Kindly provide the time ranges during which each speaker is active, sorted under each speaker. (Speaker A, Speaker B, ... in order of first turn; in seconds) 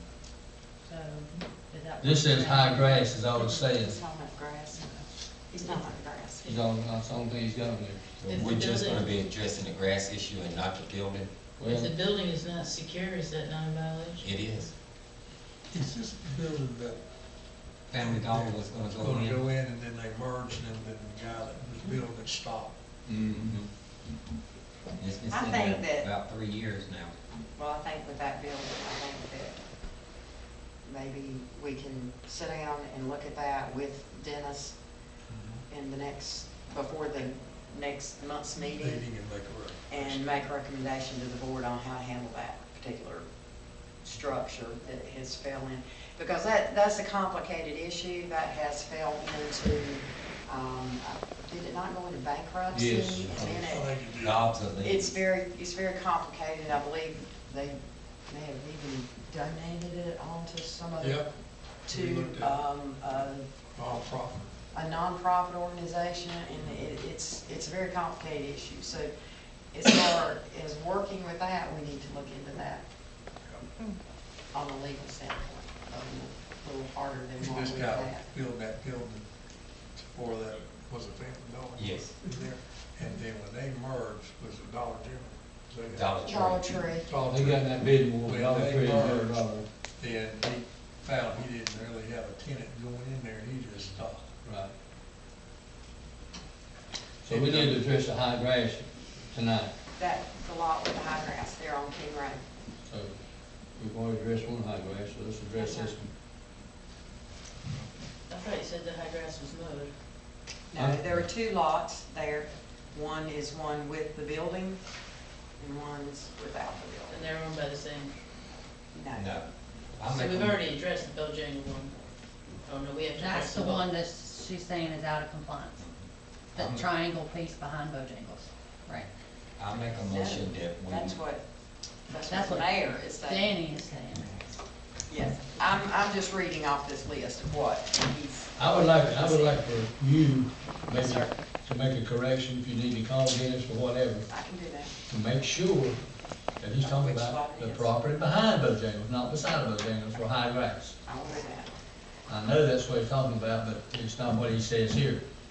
Speaker A: 0.8-3.2, 123.1-125.8, 126.5-129.1, 132.2-134.5
Speaker B: 2.0-4.0, 6.4-8.0, 11.6-11.9, 52.7-53.6, 87.3-89.7, 94.4-94.7, 97.2-99.7, 102.8-103.1, 103.7-106.1, 110.8-111.2, 138.6-144.3, 145.1-146.0, 146.6-150.9, 152.3-155.2
Speaker C: 3.3-4.9, 5.5-6.6, 25.3-26.1, 27.6-29.6, 30.8-34.7, 35.7-39.0, 39.9-43.2, 44.0-53.9, 54.8-57.8, 58.3-61.3, 61.8-63.5, 64.7-69.1, 69.7-72.8, 74.5-78.3, 86.2-87.1, 100.0-102.4, 105.5-105.9, 110.7-114.8, 115.6-117.2, 118.9-119.3, 130.0-131.4, 132.1-133.6, 135.1-139.6, 140.9-141.3, 144.3-144.9, 146.8-148.0, 151.0-151.7
Speaker D: 8.2-11.3, 14.2-14.7, 17.9-19.4, 23.0-23.7, 24.9-27.1, 54.2-55.1, 81.8-82.1, 85.9-86.6, 119.1-120.6, 125.8-126.0, 126.5-126.8, 129.6-131.2
Speaker E: 8.2-9.0, 11.7-14.2, 108.3-109.9, 117.1-118.1, 120.0-121.9, 122.6-123.9
Speaker F: 15.7-17.0, 17.9-22.7, 35.3-35.6, 38.8-40.4, 53.2-54.5, 61.0-61.3, 61.9-62.6, 63.7-64.5, 77.4-79.3, 79.9-86.4, 87.0-94.3, 97.3-97.8